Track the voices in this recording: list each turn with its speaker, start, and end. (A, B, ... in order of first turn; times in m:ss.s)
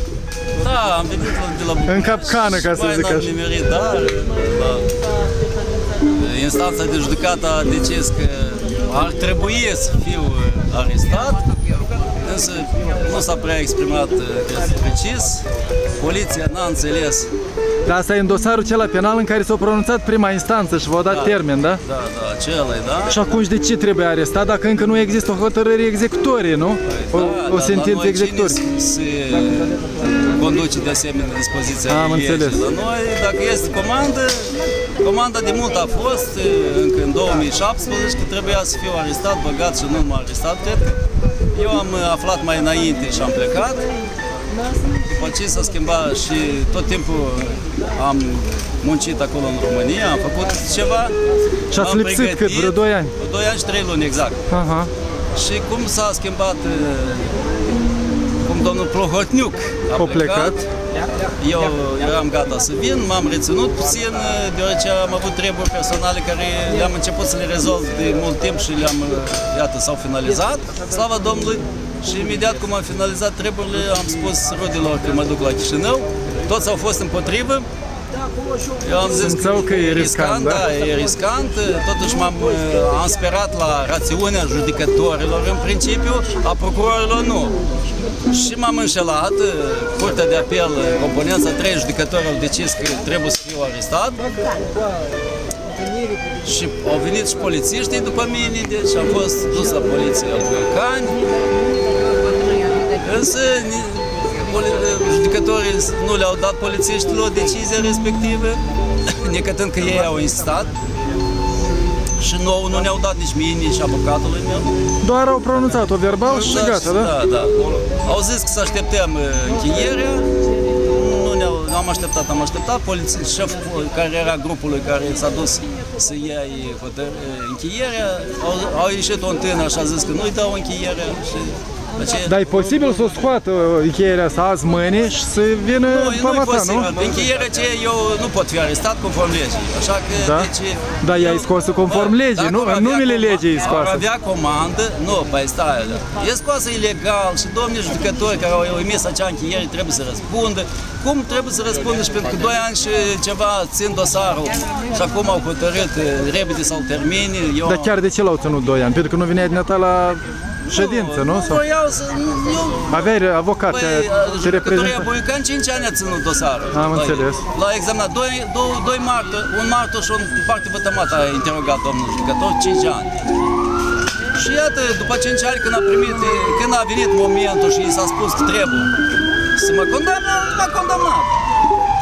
0:00.6-0:04.9 A
0:01.9-0:03.3 B
0:06.1-0:11.4 A
0:12.2-0:15.4 A
0:16.0-0:17.3 A
0:17.8-0:21.8 B
0:21.1-0:23.2 A
0:23.1-0:28.6 B
0:26.9-0:29.8 A
0:30.3-0:40.9 A
0:31.9-0:32.6 B
0:41.5-0:43.8 A
0:45.0-0:51.1 A
0:51.7-0:53.1 B
0:51.7-0:54.4 A
0:54.5-0:54.9 B
0:55.3-0:57.4 A
0:58.4-1:00.7 A
1:00.0-1:00.5 B
1:01.4-1:17.6 A
1:18.8-1:27.6 A
1:19.1-1:20.6 B
1:28.3-1:34.2 A
1:36.4-1:41.2 A
1:43.0-1:50.7 A
1:52.2-1:54.7 A
1:55.0-1:57.1 B
1:56.2-2:12.8 A
2:12.2-2:16.9 B
2:15.8-2:37.9 A
2:20.2-2:20.5 B
2:21.0-2:24.0 B
2:37.6-2:41.6 B
2:40.7-2:43.1 A
2:42.9-2:45.0 B
2:43.6-2:53.1 A
2:46.7-2:47.4 B
2:54.3-2:58.9 A
2:59.6-3:01.3 A